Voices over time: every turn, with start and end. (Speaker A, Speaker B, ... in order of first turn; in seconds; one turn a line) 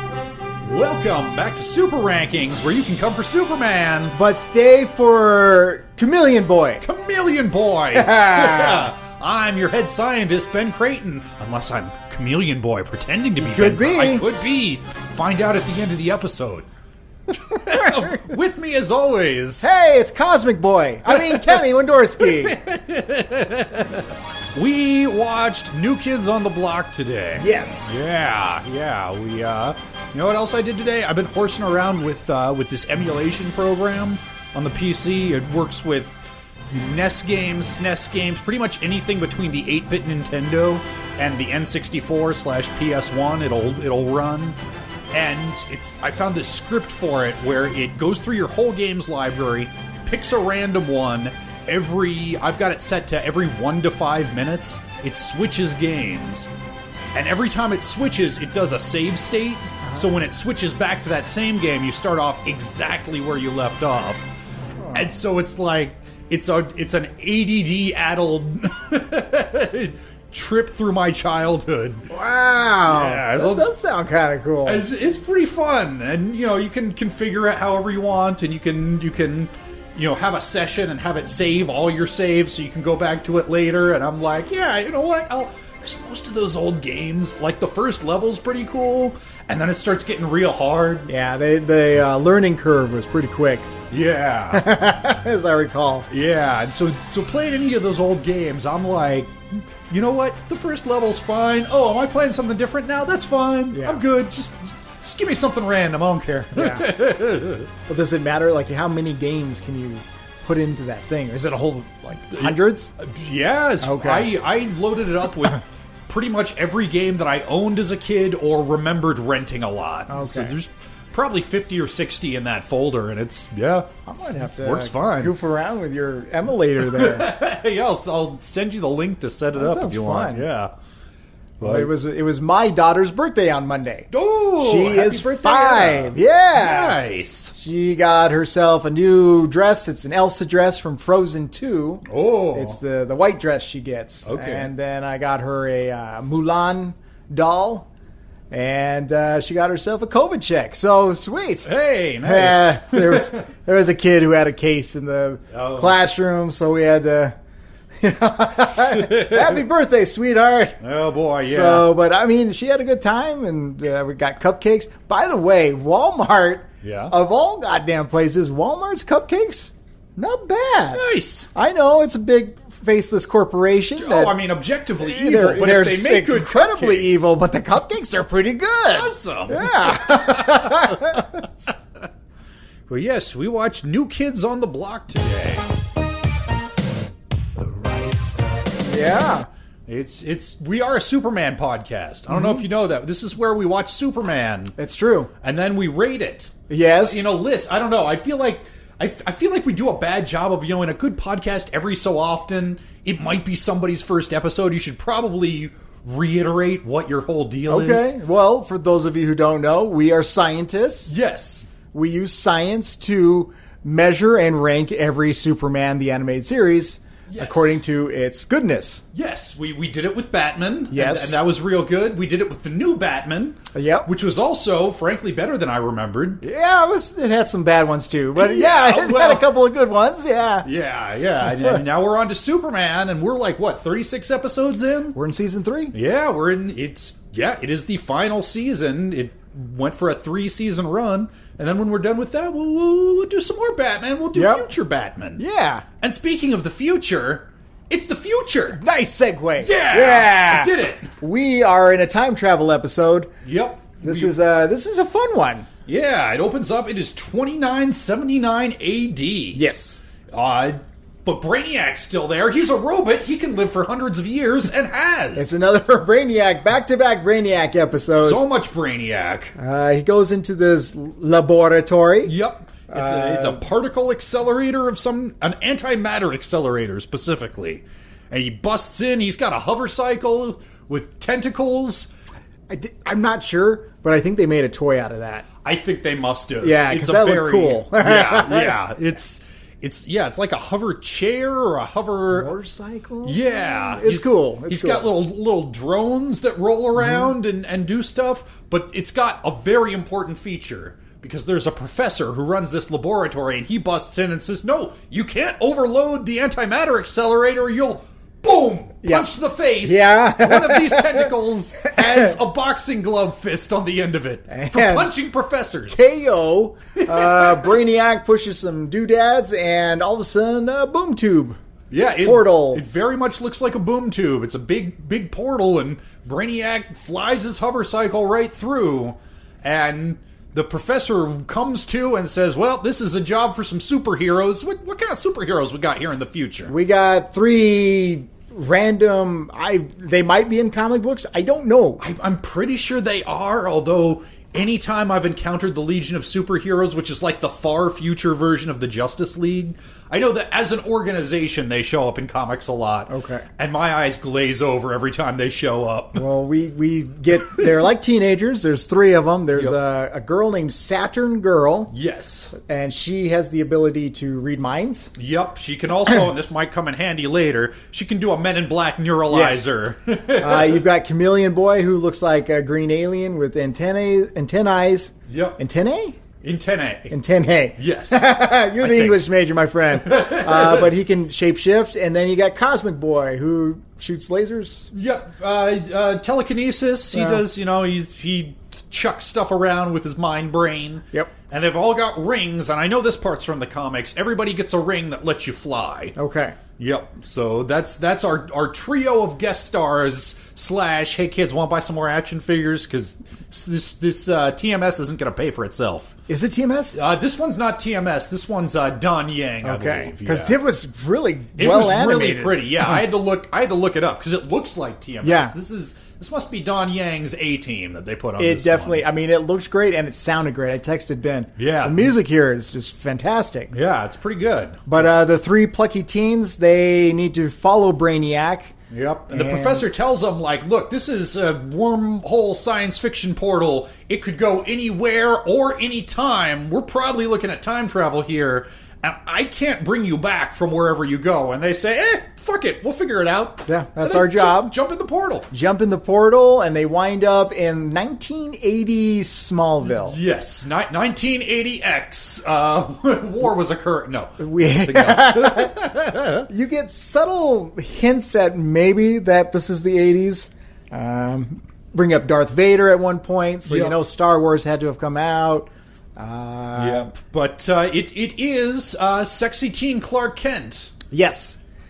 Speaker A: 0.6-4.2
Speaker B: 4.1-6.8
Speaker A: 6.8-16.7
Speaker B: 8.0-8.9
Speaker B: 13.4-14.3
Speaker A: 17.3-19.7
Speaker B: 19.6-22.6
Speaker A: 21.1-21.6
Speaker A: 22.2-36.2
Speaker B: 27.4-27.9
Speaker A: 36.7-44.6
Speaker A: 45.1-56.5
Speaker A: 57.1-64.3
Speaker B: 59.8-60.1
Speaker B: 64.8-65.1
Speaker A: 64.9-72.0
Speaker B: 72.1-74.8
Speaker A: 72.8-73.7
Speaker A: 74.6-91.1
Speaker B: 91.1-93.7
Speaker A: 93.9-94.7
Speaker B: 94.5-96.1
Speaker A: 96.1-107.7
Speaker B: 103.7-104.0
Speaker B: 106.5-106.9
Speaker B: 107.9-112.9
Speaker A: 112.3-125.3
Speaker B: 113.8-114.3
Speaker B: 120.1-120.5
Speaker B: 124.0-127.3
Speaker A: 126.8-130.7
Speaker B: 129.5-130.4
Speaker A: 131.6-131.9
Speaker B: 131.6-137.0
Speaker A: 134.1-137.5
Speaker B: 137.5-147.9
Speaker A: 142.0-142.8
Speaker A: 144.2-144.7
Speaker B: 148.5-151.7
Speaker A: 151.6-153.3
Speaker B: 152.2-157.3
Speaker A: 155.5-156.0
Speaker B: 158.0-160.8
Speaker A: 158.7-159.6
Speaker A: 160.8-161.9
Speaker B: 161.4-174.3
Speaker A: 166.8-167.1
Speaker A: 170.9-171.5
Speaker A: 173.9-177.3
Speaker B: 175.0-181.4
Speaker A: 178.9-181.7
Speaker A: 182.9-185.7
Speaker A: 187.9-188.3
Speaker B: 188.7-189.5
Speaker A: 189.9-194.7
Speaker B: 192.3-192.6
Speaker B: 194.8-195.3
Speaker A: 195.4-208.1
Speaker B: 196.7-197.3
Speaker B: 207.7-211.1
Speaker A: 211.1-211.7
Speaker B: 211.9-219.0
Speaker A: 217.3-217.8
Speaker A: 219.1-226.4
Speaker B: 220.9-221.4
Speaker B: 223.7-224.1
Speaker B: 226.4-230.7
Speaker A: 228.3-229.4
Speaker A: 230.6-235.2
Speaker B: 231.4-231.8
Speaker B: 235.1-235.9
Speaker A: 235.9-245.4
Speaker B: 244.3-244.7
Speaker B: 245.4-245.8
Speaker A: 246.0-248.8
Speaker B: 248.7-253.3
Speaker A: 249.6-251.1
Speaker A: 253.4-254.3
Speaker B: 254.0-255.7
Speaker A: 255.9-259.6
Speaker B: 259.5-260.0
Speaker A: 260.3-265.5
Speaker B: 265.3-268.4
Speaker A: 268.2-269.5
Speaker B: 269.6-272.3
Speaker A: 272.2-282.1
Speaker B: 272.9-273.6
Speaker B: 282.7-285.5
Speaker A: 285.6-292.5
Speaker B: 286.6-288.8
Speaker B: 292.3-295.1
Speaker A: 293.2-316.0
Speaker B: 297.0-297.3
Speaker B: 309.0-309.3
Speaker B: 309.8-311.3
Speaker B: 314.5-315.1
Speaker B: 315.9-321.6
Speaker A: 317.0-317.7
Speaker A: 321.9-336.7
Speaker B: 322.2-322.8
Speaker B: 336.7-342.0
Speaker A: 342.0-356.2
Speaker B: 353.1-353.5
Speaker B: 356.1-361.9
Speaker A: 361.9-362.5
Speaker B: 362.5-365.1
Speaker A: 365.1-370.8
Speaker B: 369.3-369.7
Speaker B: 370.3-376.2
Speaker A: 375.3-375.6
Speaker A: 376.4-377.1
Speaker B: 377.1-384.9
Speaker A: 377.8-379.2
Speaker A: 380.0-380.9
Speaker A: 384.9-396.1
Speaker B: 387.1-387.4
Speaker B: 396.1-396.6
Speaker A: 396.8-406.2
Speaker B: 406.3-407.0
Speaker A: 406.9-410.6
Speaker B: 409.6-413.0
Speaker A: 411.6-419.1
Speaker B: 415.2-415.5
Speaker B: 418.4-423.7
Speaker A: 421.6-422.1
Speaker A: 423.7-424.8
Speaker B: 424.9-428.7
Speaker A: 428.9-445.5
Speaker B: 429.3-429.9
Speaker B: 443.6-444.7
Speaker B: 445.5-450.2
Speaker A: 449.8-456.5
Speaker B: 454.4-455.8
Speaker B: 456.5-467.1
Speaker A: 463.6-463.9
Speaker A: 466.8-470.9
Speaker B: 471.1-471.6